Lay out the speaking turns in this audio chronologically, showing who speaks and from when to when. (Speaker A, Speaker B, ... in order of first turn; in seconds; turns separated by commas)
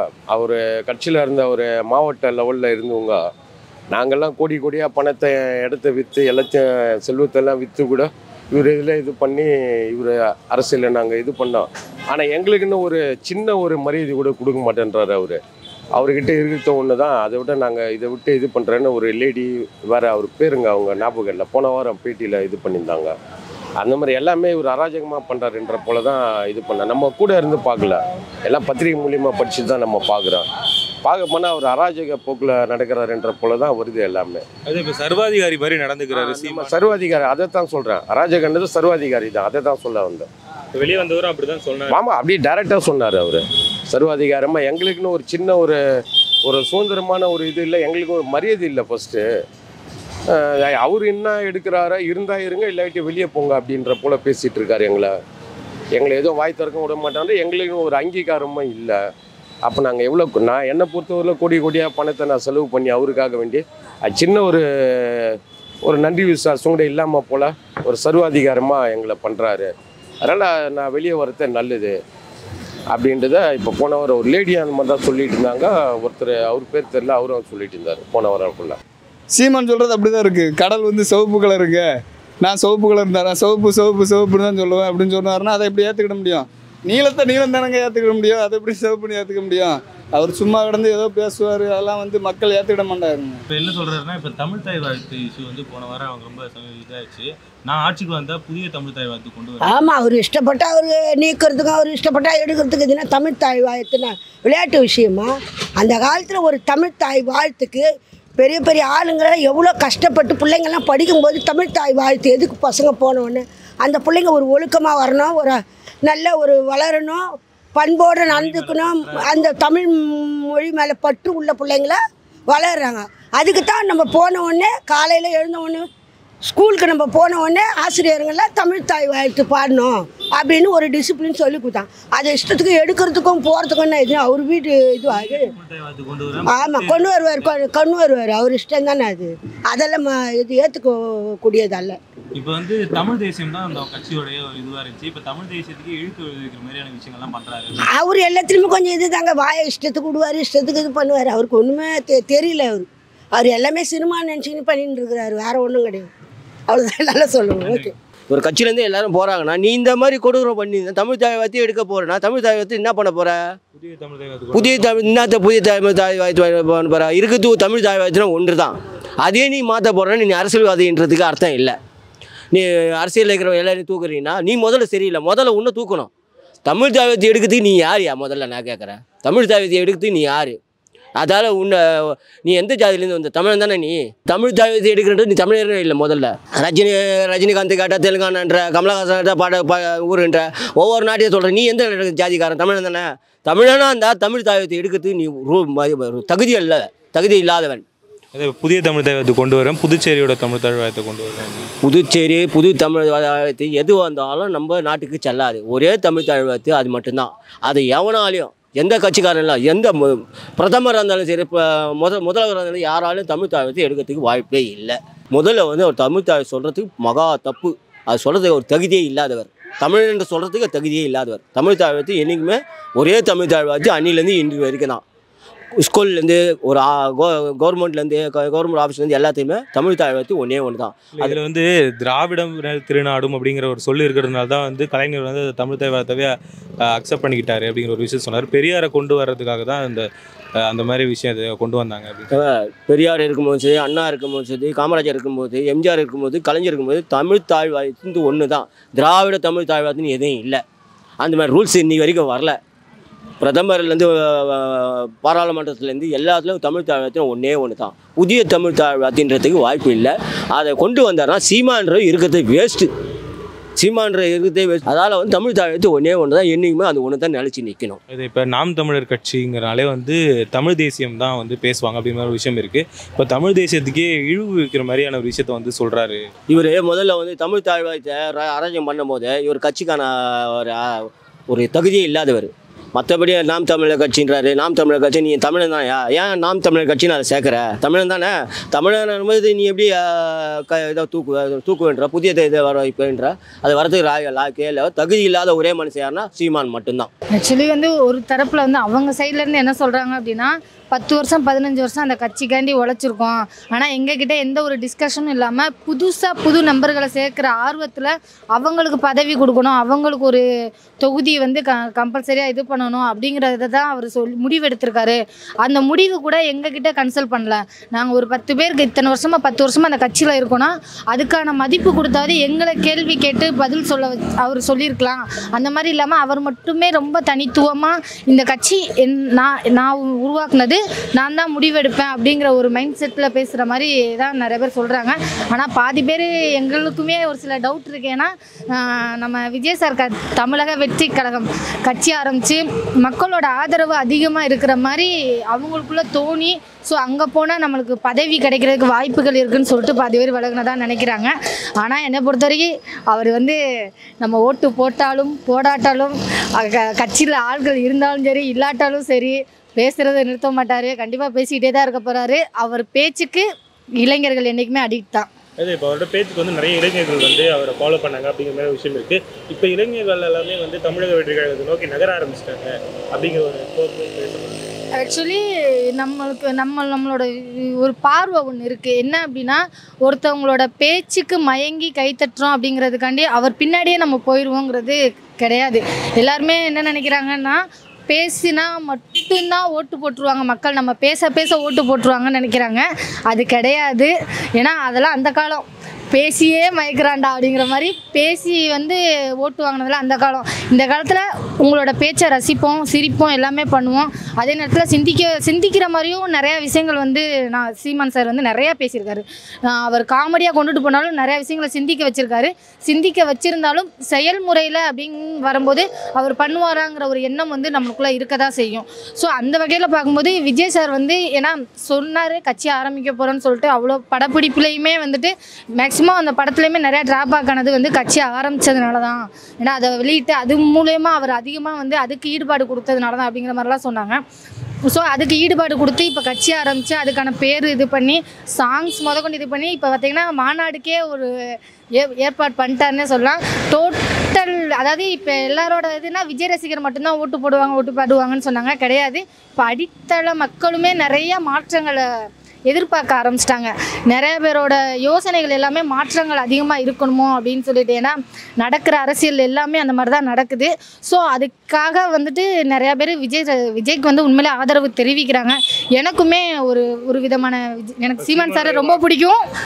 Speaker A: 0.3-3.2, Speaker A: 3.9-15.4, Speaker A: 16.0-23.1, Speaker A: 23.8-30.5, Speaker A: 31.0-34.5, Speaker B: 34.6-37.0, Speaker A: 36.1-40.3, Speaker B: 40.7-42.0, Speaker A: 41.9-45.8, Speaker A: 46.4-49.2, Speaker A: 50.3-55.1, Speaker A: 56.0-59.0, Speaker A: 59.6-69.7, Speaker A: 70.3-72.0, Speaker A: 72.9-78.8, Speaker C: 79.3-81.9, Speaker C: 82.4-93.4, Speaker B: 93.5-99.8, Speaker D: 99.6-107.8, Speaker D: 108.4-125.9, Speaker B: 118.3-119.5, Speaker D: 126.5-135.5, Speaker B: 135.1-137.5, Speaker D: 136.5-142.0, Speaker B: 142.3-147.9, Speaker D: 147.8-156.1, Speaker D: 156.7-157.9, Speaker B: 157.6-157.9, Speaker E: 158.3-163.4, Speaker B: 163.7-164.9, Speaker E: 164.5-171.8, Speaker E: 172.5-176.1, Speaker E: 176.7-180.6, Speaker E: 181.2-197.8, Speaker B: 198.3-201.7, Speaker E: 201.8-225.0, Speaker E: 225.8-231.4, Speaker B: 231.2-236.3, Speaker B: 236.9-240.1, Speaker B: 240.6-242.3, Speaker E: 242.3-250.6, Speaker E: 251.2-252.6, Speaker E: 253.4-262.9, Speaker E: 263.8-268.0, Speaker B: 268.1-276.3, Speaker E: 276.5-297.1, Speaker F: 297.3-310.4, Speaker F: 311.0-353.6, Speaker F: 354.2-363.4, Speaker F: 364.0-365.3, Speaker B: 365.6-374.6, Speaker F: 375.0-434.2, Speaker F: 434.9-441.3, Speaker F: 442.0-452.1, Speaker F: 452.7-469.4, Speaker B: 468.2-469.0